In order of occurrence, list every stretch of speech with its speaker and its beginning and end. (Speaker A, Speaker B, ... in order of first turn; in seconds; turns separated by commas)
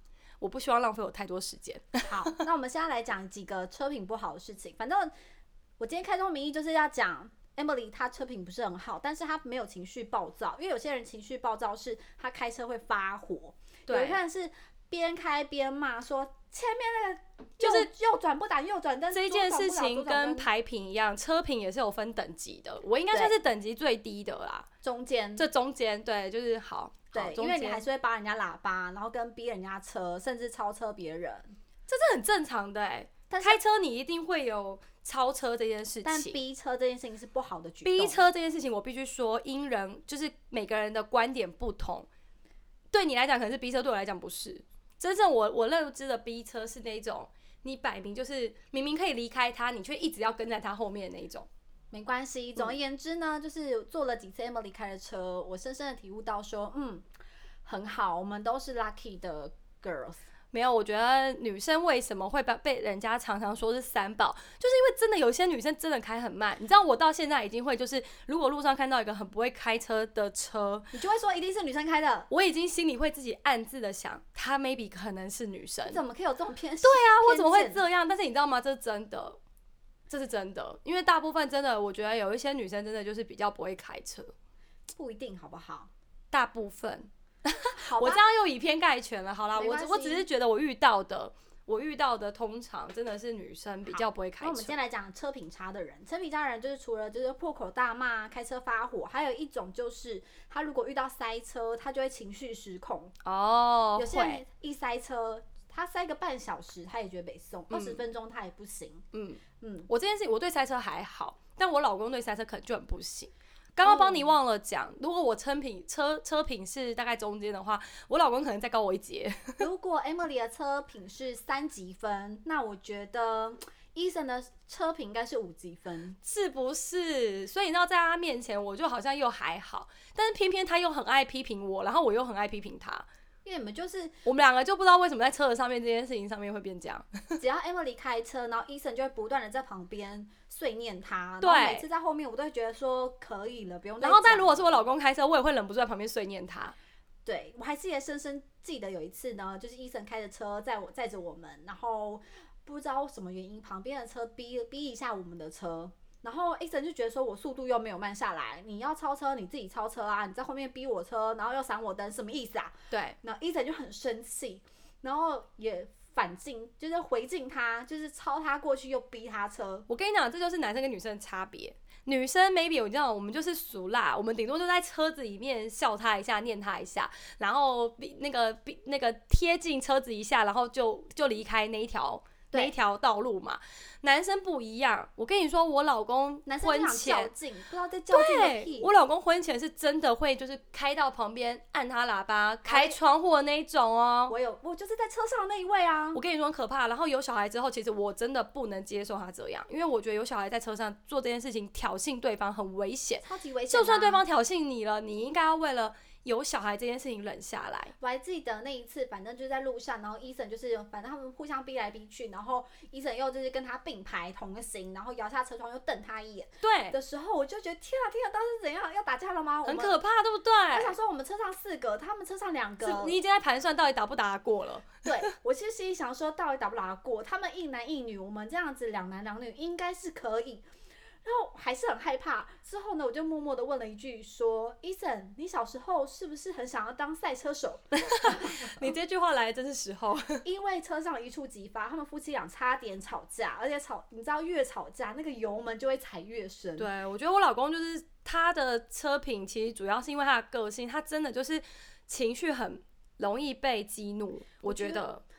Speaker A: 0.4-2.4, Speaker B: 2.0-5.1, Speaker B: 5.8-20.5, Speaker A: 13.9-14.2, Speaker A: 17.6-17.9, Speaker A: 19.1-24.7, Speaker B: 24.8-25.5, Speaker A: 25.4-27.8, Speaker B: 27.1-31.5, Speaker A: 31.9-36.4, Speaker B: 33.3-33.6, Speaker B: 36.0-38.3, Speaker A: 37.8-42.1, Speaker A: 42.9-51.5, Speaker B: 51.9-57.0, Speaker B: 57.6-60.2, Speaker A: 60.5-70.9, Speaker B: 70.9-72.3, Speaker A: 72.3-76.0, Speaker B: 75.9-77.8, Speaker A: 76.8-79.4, Speaker A: 80.1-84.3, Speaker B: 84.9-85.9, Speaker A: 86.3-94.7, Speaker B: 87.7-88.2, Speaker B: 89.5-90.3, Speaker B: 93.9-103.1, Speaker A: 103.2-104.4, Speaker B: 104.0-109.0, Speaker A: 107.7-108.0, Speaker A: 109.1-119.7, Speaker B: 109.6-109.9, Speaker B: 113.8-114.3, Speaker B: 119.6-126.2, Speaker A: 126.2-133.0, Speaker B: 133.4-134.2, Speaker A: 134.2-137.4, Speaker B: 137.4-144.9, Speaker A: 141.4-141.8, Speaker A: 144.0-146.7, Speaker B: 147.2-169.9, Speaker A: 162.9-163.2, Speaker A: 169.9-187.3, Speaker B: 186.4-188.9, Speaker A: 188.1-194.3, Speaker B: 192.6-193.0, Speaker B: 194.3-196.2, Speaker A: 196.1-207.9, Speaker B: 203.2-204.2, Speaker B: 208.0-220.0, Speaker A: 216.6-217.0, Speaker A: 219.6-220.9, Speaker B: 220.7-223.2, Speaker A: 222.8-225.0, Speaker B: 225.0-230.7, Speaker B: 231.2-238.9, Speaker A: 237.9-240.4, Speaker B: 240.4-246.9, Speaker A: 246.8-255.2, Speaker B: 254.6-255.2